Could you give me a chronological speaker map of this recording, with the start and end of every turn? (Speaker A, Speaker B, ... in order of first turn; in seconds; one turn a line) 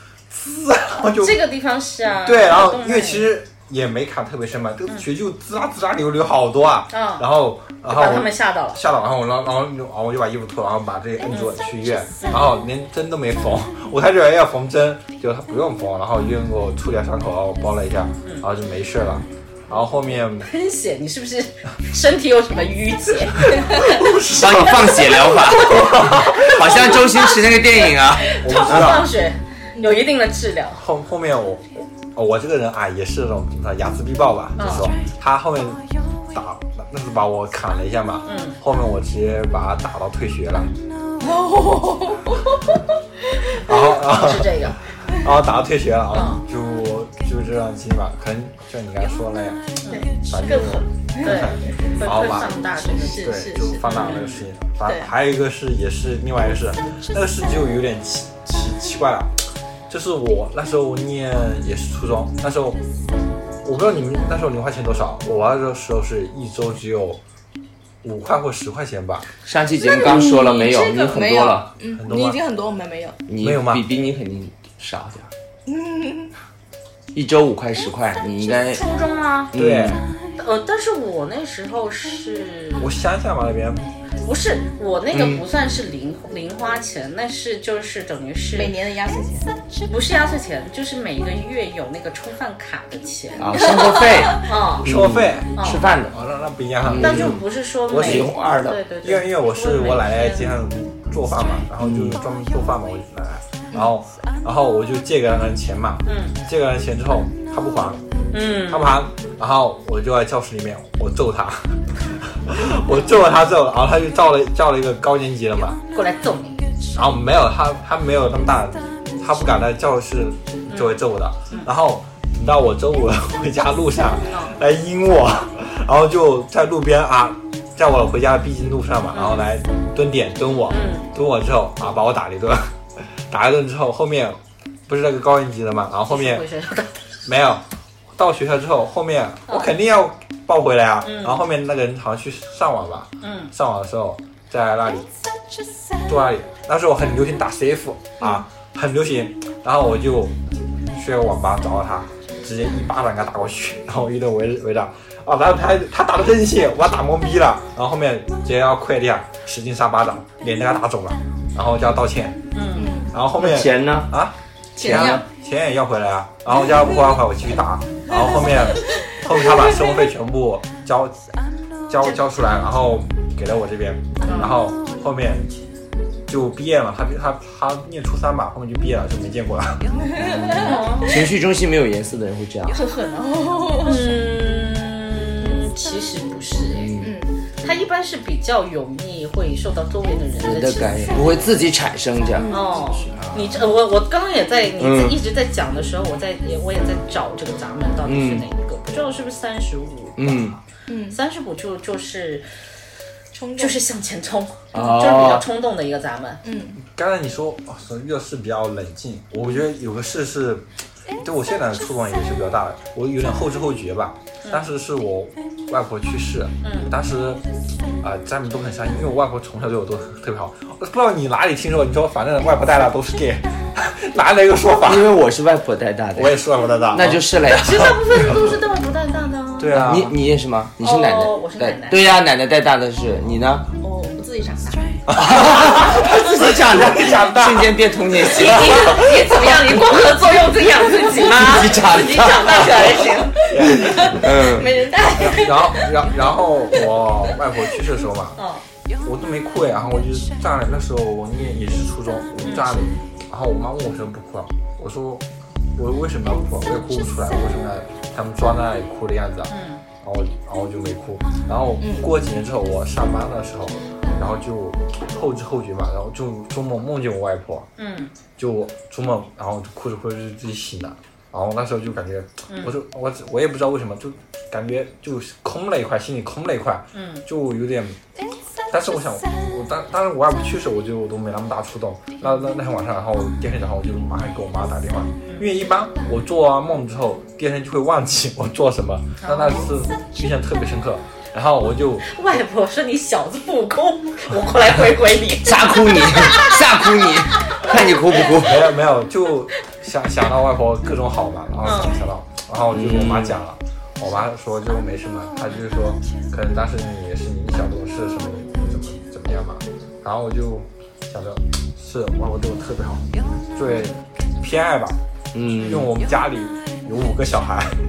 Speaker A: 0.3-1.4
Speaker B: 1.2-3.3
Speaker A: 2.2-20.5
Speaker B: 6.9-7.2
Speaker B: 7.9-8.8
Speaker B: 12.2-12.5
Speaker B: 20.4-23.9
Speaker A: 23.6-26.8
Speaker C: 24.2-29.0
Speaker B: 24.9-27.5
Speaker B: 28.0-30.8
Speaker A: 28.4-29.1
Speaker D: 29.7-30.1
Speaker A: 30.8-40.7
Speaker B: 34.6-34.9
Speaker B: 38.2-38.6
Speaker D: 41.2-42.8
Speaker A: 43.6-52.5
Speaker B: 44.0-44.8
Speaker B: 46.1-46.4
Speaker B: 49.8-50.1
Speaker D: 49.9-54.1
Speaker B: 51.2-54.4
Speaker A: 53.1-62.8
Speaker D: 54.8-55.1
Speaker A: 63.6-67.2
Speaker A: 68.0-69.2
Speaker C: 69.5-71.7
Speaker D: 69.7-73.2
Speaker A: 71.9-72.4
Speaker C: 73.3-75.3
Speaker A: 73.4-73.8
Speaker D: 75.7-76.3
Speaker C: 77.1-78.8
Speaker B: 78.4-79.5
Speaker C: 79.5-80.0
Speaker A: 79.5-80.0
Speaker B: 80.4-82.8
Speaker A: 82.8-83.8
Speaker B: 84.2-88.7
Speaker C: 85.1-85.4
Speaker D: 88.5-89.5
Speaker B: 89.9-94.9
Speaker C: 93.4-96.1
Speaker D: 93.5-94.4
Speaker A: 94.8-98.3
Speaker B: 95.5-95.8
Speaker C: 96.8-98.8
Speaker B: 97.0-100.5
Speaker A: 99.0-108.0
Speaker C: 101.8-102.2
Speaker B: 106.0-106.4
Speaker B: 108.3-109.0
Speaker A: 108.7-115.8
Speaker B: 115.9-116.6
Speaker A: 116.9-136.4
Speaker B: 120.7-121.0
Speaker B: 129.1-129.5
Speaker B: 130.7-131.1
Speaker B: 136.1-136.9
Speaker A: 137.2-137.6
Speaker A: 138.1-145.1
Speaker B: 141.0-141.4
Speaker B: 143.2-143.5
Speaker A: 146.1-150.4
Speaker A: 150.9-162.4
Speaker B: 162.5-162.9
Speaker D: 162.7-163.1
Speaker A: 163.1-171.2
Speaker C: 163.4-164.1
Speaker D: 164.8-165.2
Speaker C: 164.8-165.2
Speaker D: 166.6-167.1
Speaker D: 168.1-169.8
Speaker A: 171.9-175.5
Speaker B: 174.2-174.6
Speaker A: 176.3-179.9
Speaker D: 179.9-181.2
Speaker C: 180.2-182.8
Speaker B: 180.6-181.2
Speaker D: 182.7-184.1
Speaker B: 183.8-187.0
Speaker C: 186.7-187.1
Speaker D: 187.0-187.3
Speaker B: 187.6-191.5
Speaker C: 190.4-193.6
Speaker D: 192.3-193.1
Speaker B: 192.5-200.5
Speaker C: 194.8-195.2
Speaker C: 198.1-198.4
Speaker C: 200.2-200.6
Speaker D: 200.9-201.2
Speaker B: 201.1-202.5
Speaker D: 203.3-203.8
Speaker B: 203.6-206.4
Speaker C: 204.7-205.4
Speaker D: 206.4-206.8
Speaker A: 206.9-210.7
Speaker A: 211.2-217.4
Speaker B: 216.6-216.9
Speaker A: 218.0-225.1
Speaker C: 224.8-228.4
Speaker A: 226.1-227.2
Speaker B: 227.5-229.9
Speaker A: 227.8-228.2
Speaker A: 229.6-230.2
Speaker C: 229.7-233.7
Speaker B: 230.8-232.0
Speaker D: 233.8-234.9
Speaker A: 235.1-237.7
Speaker C: 235.1-239.8
Speaker B: 238.2-243.4
Speaker A: 238.6-239.0
Speaker C: 241.0-243.0
Speaker D: 242.4-246.1
Speaker A: 243.5-244.2
Speaker C: 243.6-244.8
Speaker A: 245.1-248.3
Speaker D: 246.9-247.3
Speaker B: 248.4-248.6
Speaker A: 249.0-259.5
Speaker B: 252.4-252.9
Speaker B: 259.5-259.8
Speaker A: 260.0-267.7
Speaker D: 261.8-262.1
Speaker B: 267.8-268.1
Speaker A: 268.4-278.0
Speaker B: 272.5-272.7
Speaker B: 276.9-277.2
Speaker A: 278.7-292.2
Speaker B: 282.2-282.5
Speaker B: 289.2-289.7
Speaker B: 292.1-298.2
Speaker C: 295.4-298.7
Speaker A: 298.4-315.0
Speaker B: 301.6-302.0
Speaker C: 302.7-303.4
Speaker B: 313.7-313.9
Speaker C: 315.3-315.9
Speaker A: 315.5-317.8
Speaker B: 315.6-315.9